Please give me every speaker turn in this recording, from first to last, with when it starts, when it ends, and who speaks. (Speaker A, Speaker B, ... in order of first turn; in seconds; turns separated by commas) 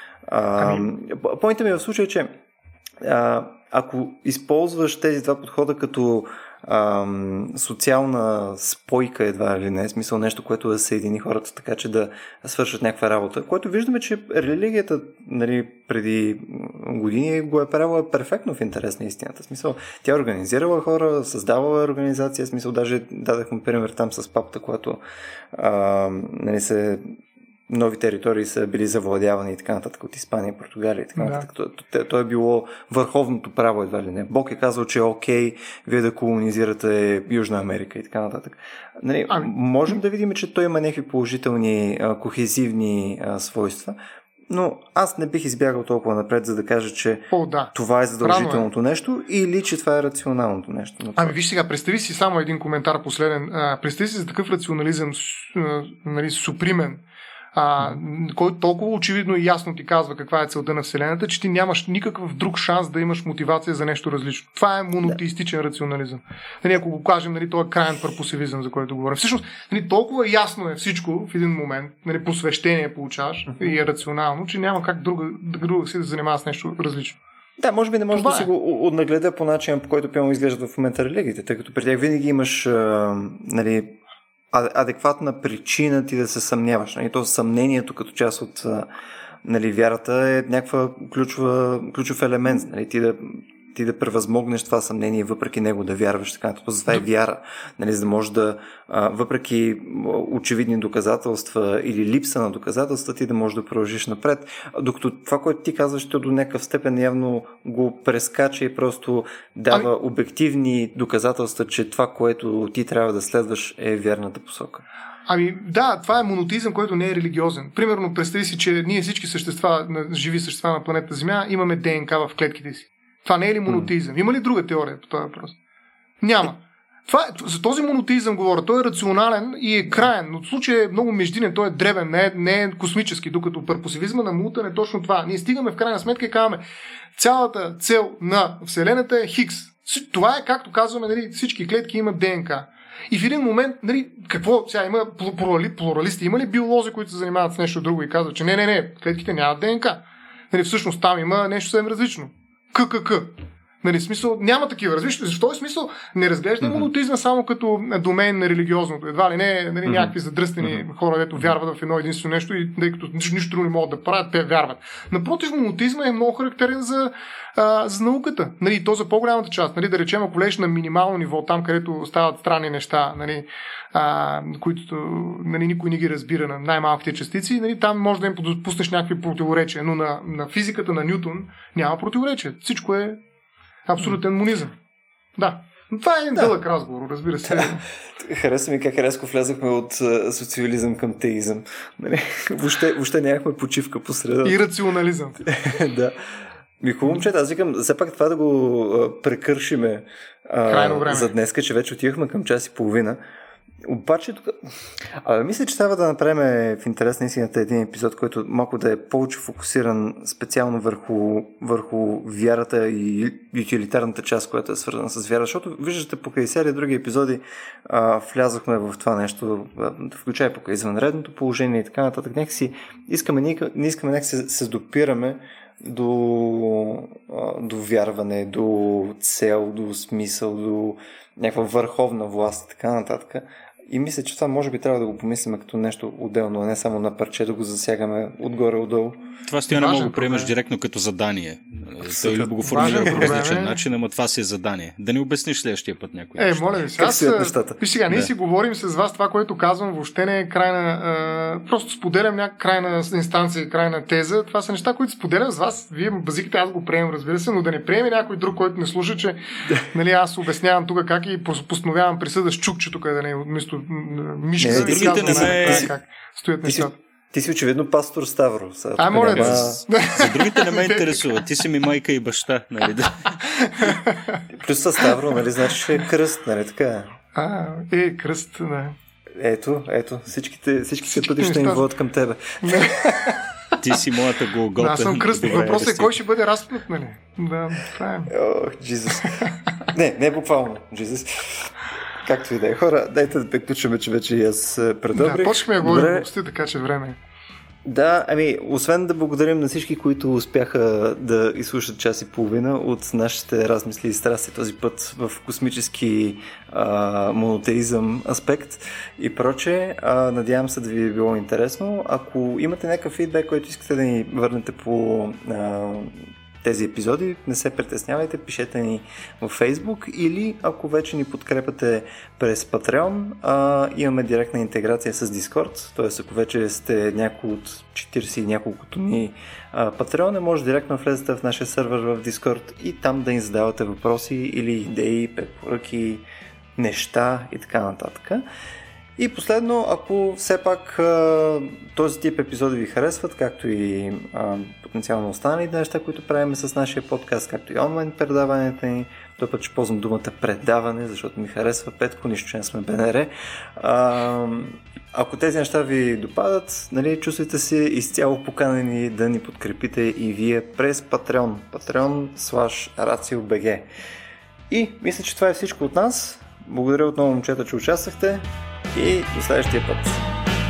Speaker A: 0.3-2.3, Speaker B: 0.6-0.9, Speaker A: 3.0-25.0, Speaker A: 25.5-44.0, Speaker B: 31.1-31.4, Speaker A: 44.5-51.4, Speaker B: 47.3-48.7, Speaker B: 51.1-57.0, Speaker B: 57.5-77.2, Speaker A: 77.6-84.0, Speaker B: 78.1-78.5, Speaker A: 84.5-88.9, Speaker A: 89.4-114.8, Speaker B: 115.3-125.5, Speaker B: 126.2-136.6, Speaker B: 137.2-183.2, Speaker B: 183.9-184.7, Speaker B: 185.4-187.8, Speaker A: 187.5-194.6, Speaker B: 194.4-195.4, Speaker A: 195.4-196.2, Speaker A: 196.8-203.2, Speaker B: 200.7-201.3, Speaker A: 203.8-239.2, Speaker C: 239.5-246.9, Speaker B: 239.7-240.5, Speaker A: 242.0-243.4, Speaker B: 242.6-243.8, Speaker B: 246.4-267.0, Speaker A: 246.9-247.8, Speaker A: 264.6-265.9, Speaker C: 264.6-265.9, Speaker A: 266.6-269.8, Speaker B: 269.0-271.3, Speaker C: 269.1-273.4, Speaker B: 273.4-274.4, Speaker A: 274.5-277.1, Speaker B: 277.3-278.9, Speaker A: 279.4-283.3, Speaker B: 281.1-281.9, Speaker B: 282.6-283.8, Speaker C: 283.8-286.2, Speaker B: 284.8-288.3, Speaker A: 288.3-296.3, Speaker B: 289.2-289.8, Speaker B: 295.1-297.2, Speaker A: 297.8-336.2, Speaker A: 336.8-338.4, Speaker A: 339.2-363.9, Speaker A: 364.7-370.2